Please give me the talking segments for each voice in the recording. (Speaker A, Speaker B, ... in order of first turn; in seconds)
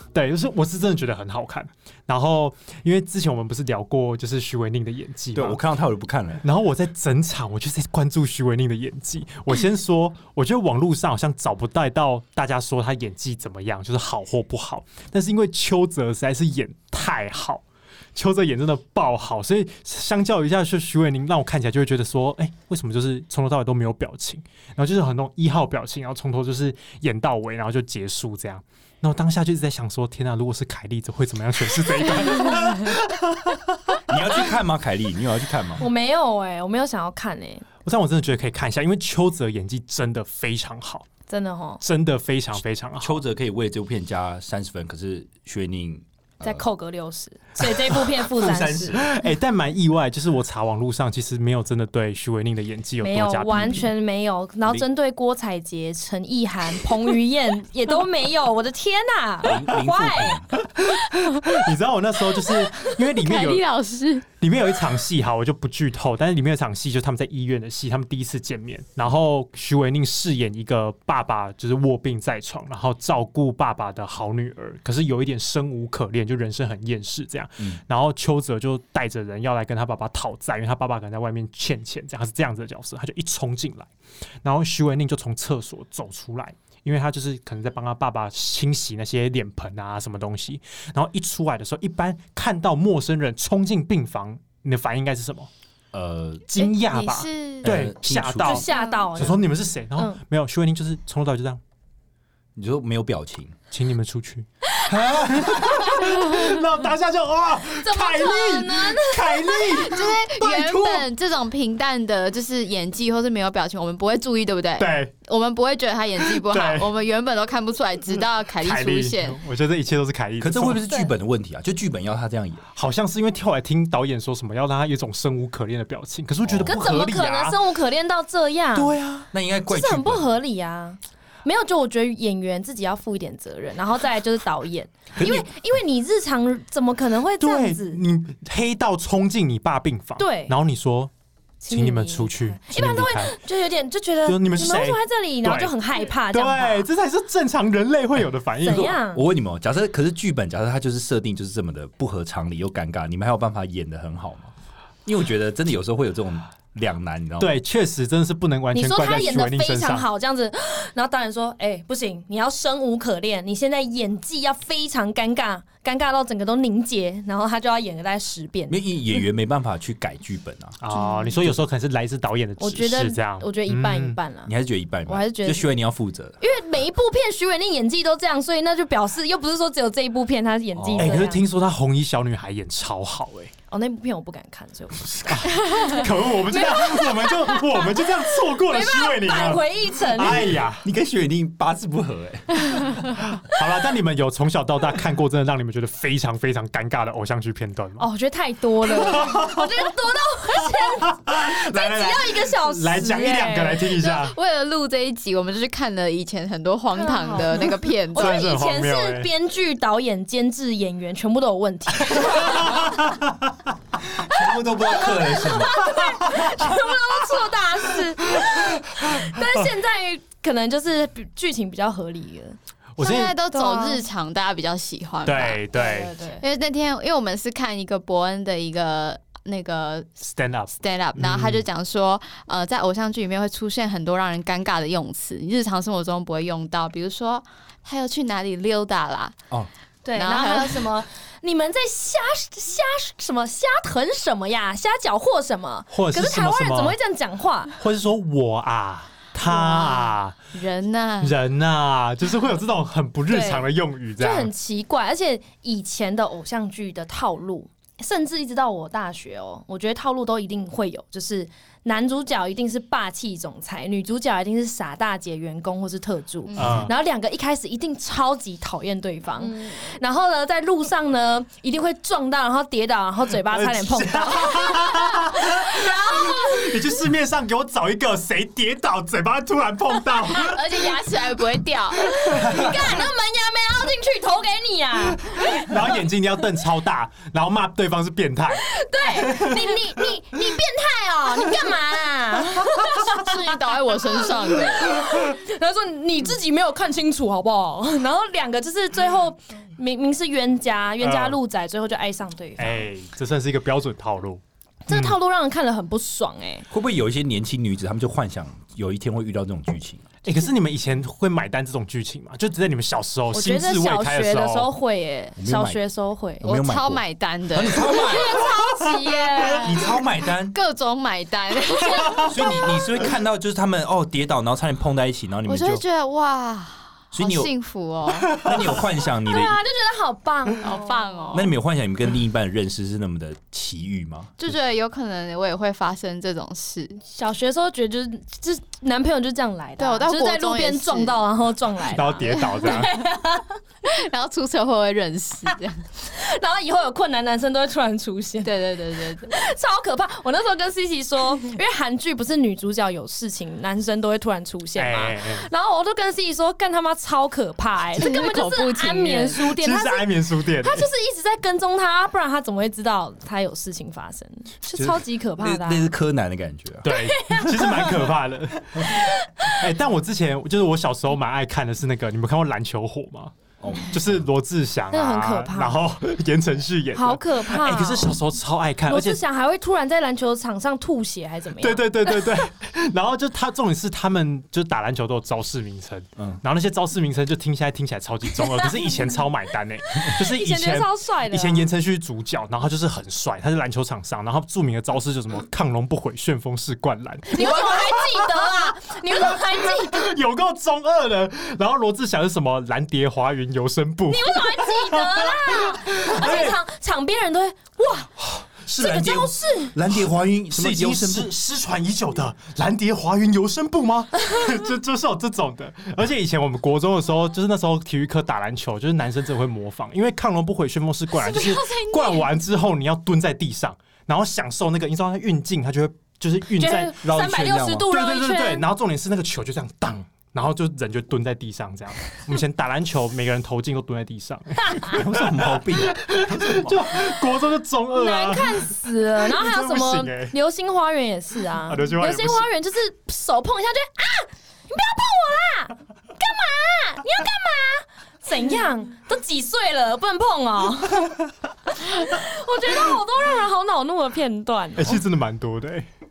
Speaker A: 0.1-5.6, 6.4-17.6, 18.1-34.0, 37.8-41.1, 41.8-43.2, 48.9-53.9, 60.8-63.6, 64.4-83.9, 84.4-95.5, 96.5-101.6, 103.7-111.1, 114.8-115.1, 116.2-116.9, 118.6-120.8, 122.8-127.6, 128.8-129.3, 137.4-141.1, 141.7-143.4, 144.3-149.0, 157.4-160.1, 170.8-174.2, 181.0-183.5, 185.3-190.8, 193.3-198.1, 198.8-199.9, 200.6-204.4, 208.1-209.3, 212.2-213.3, 223.0-223.3, 225.2-226.2, 230.2-231.7, 245.9-247.0, 247.8-250.3, 251.2-254.5, 266.6-266.9, 273.5-281.0, 282.3-283.0, 285.4-289.8, 301.0-301.4, 302.6-305.2, 310.2-314.7, 341.9-343.0, 354.8-355.5, 359.5-360.9, 366.8-373.4, 373.9-379.2, 381.6-398.6, 399.1-406.6, 410.5-427.0, 427.9-440.3, 441.7-442.5, 454.8-455.9
Speaker B: 5.3-6.4, 34.1-35.9, 43.0-46.6, 47.9-49.1, 53.5-53.8, 59.4-60.5, 95.9-96.5, 97.6-98.7, 102.5-103.6, 120.4-122.6, 126.5-126.8, 129.3-130.3, 135.2-135.5, 148.7-154.5, 155.1-157.5, 168.7-170.8, 174.5-176.4, 180.7-181.3, 190.2-193.1, 214.1-216.0, 306.7-310.0, 315.4-315.8, 316.4-318.5, 319.6-320.6, 322.2-325.8, 327.1-327.5, 328.4-329.6, 331.3-334.6, 364.8-366.9, 373.6-374.3, 408.6-411.3, 427.0-427.9, 434.9-436.9
Speaker C: 35.8-37.7, 41.3-41.8, 46.4-49.0, 53.0-60.4, 98.4-100.2, 104.9-106.3, 107.8-110.1, 126.7-129.0, 129.7-138.0, 140.2-140.5, 141.6-146.9, 148.6-149.2, 158.7-168.8, 172.6-174.5, 175.1-175.8, 176.4-181.4, 183.7-190.6, 198.0-203.6, 206.9-212.9, 214.8-224.1, 225.8-226.4, 240.1-247.8, 249.4-250.1, 253.3-277.0, 282.0-285.8, 288.6-302.9, 304.9-306.7, 313.3-316.5, 317.8-319.8, 321.7-322.9, 329.2-331.3, 337.1-343.6, 345.5-365.9, 366.9-368.1, 374.9-375.8, 376.9-378.1, 378.9-382.2, 390.0-391.7, 397.3-400.0, 404.1-408.1, 408.8-409.8, 426.6-428.7, 434.6-434.9, 437.9-455.0
Speaker D: 61.2-61.5, 62.7-64.3, 96.6-97.8, 109.7-119.4, 203.1-208.5, 223.0-230.2, 230.8-239.4, 240.2-240.9, 250.5-251.4, 266.5-266.9, 280.2-282.6, 292.7-295.2, 316.4-318.2, 320.5-322.4, 325.5-328.8, 330.6-331.5, 334.4-337.0, 339.8-341.2, 343.8-345.9, 348.4-349.3, 358.0-359.5, 421.2-422.2